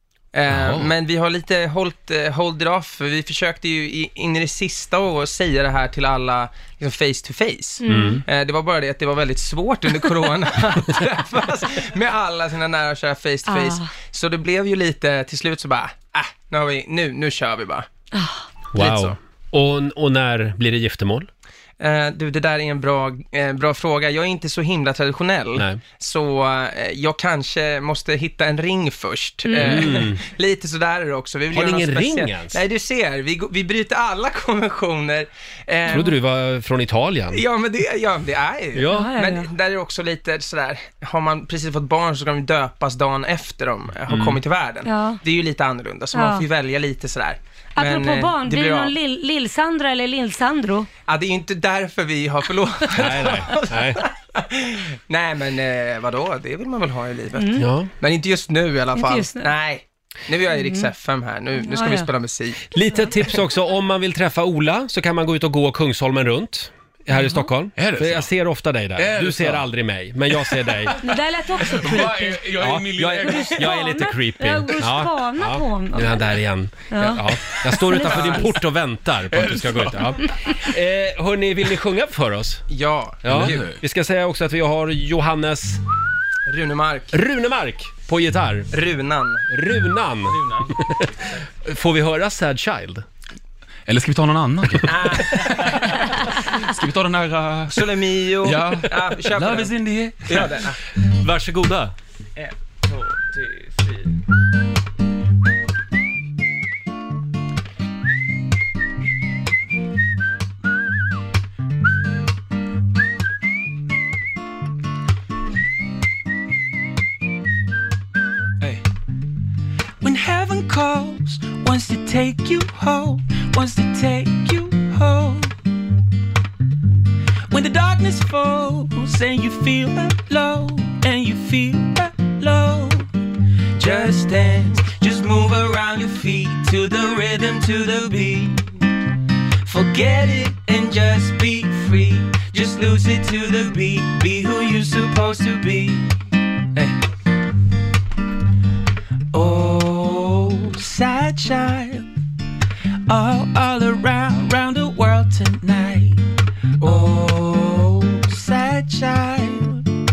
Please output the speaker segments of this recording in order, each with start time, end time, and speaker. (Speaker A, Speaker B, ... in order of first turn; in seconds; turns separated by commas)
Speaker A: 0.3-17.9, Speaker B: 0.5-0.9, Speaker C: 7.8-8.2, Speaker B: 7.9-8.2, Speaker C: 13.5-13.9, Speaker C: 18.1-18.5, Speaker B: 18.7-21.3, Speaker A: 18.8-19.1, Speaker A: 21.8-36.1, Speaker C: 29.4-29.9, Speaker B: 29.6-30.2, Speaker B: 31.5-32.6, Speaker B: 35.9-37.4, Speaker A: 37.3-48.9, Speaker B: 38.7-39.1, Speaker C: 38.9-39.5, Speaker B: 44.1-44.4, Speaker C: 44.9-45.2, Speaker C: 46.1-46.5, Speaker C: 47.8-50.9, Speaker A: 51.1-62.6, Speaker B: 53.0-54.0, Speaker C: 57.4-57.6, Speaker B: 57.6-57.9, Speaker C: 58.9-59.5, Speaker C: 60.5-60.9, Speaker C: 61.6-62.1, Speaker B: 62.7-71.0, Speaker D: 67.8-68.3, Speaker D: 69.0-69.7, Speaker D: 70.5-71.0, Speaker C: 71.0-72.4, Speaker D: 71.6-73.7, Speaker B: 72.6-82.6, Speaker C: 73.2-76.3, Speaker C: 76.9-78.5, Speaker D: 79.3-80.2, Speaker A: 82.7-83.6, Speaker B: 83.2-85.8, Speaker D: 83.3-83.8, Speaker A: 86.5-87.1, Speaker B: 87.1-88.7, Speaker A: 88.7-89.4, Speaker B: 89.5-91.1, Speaker A: 90.3-90.7, Speaker B: 91.6-93.0, Speaker D: 93.9-100.6, Speaker A: 94.9-95.8, Speaker A: 97.7-99.7, Speaker A: 100.2-100.8, Speaker B: 101.2-101.9, Speaker A: 103.1-103.9, Speaker E: 120.0-125.5, Speaker E: 127.5-133.1, Speaker E: 133.8-138.8, Speaker E: 139.7-146.2, Speaker E: 149.3-152.0, Speaker E: 153.1-156.2, Speaker E: 156.8-159.8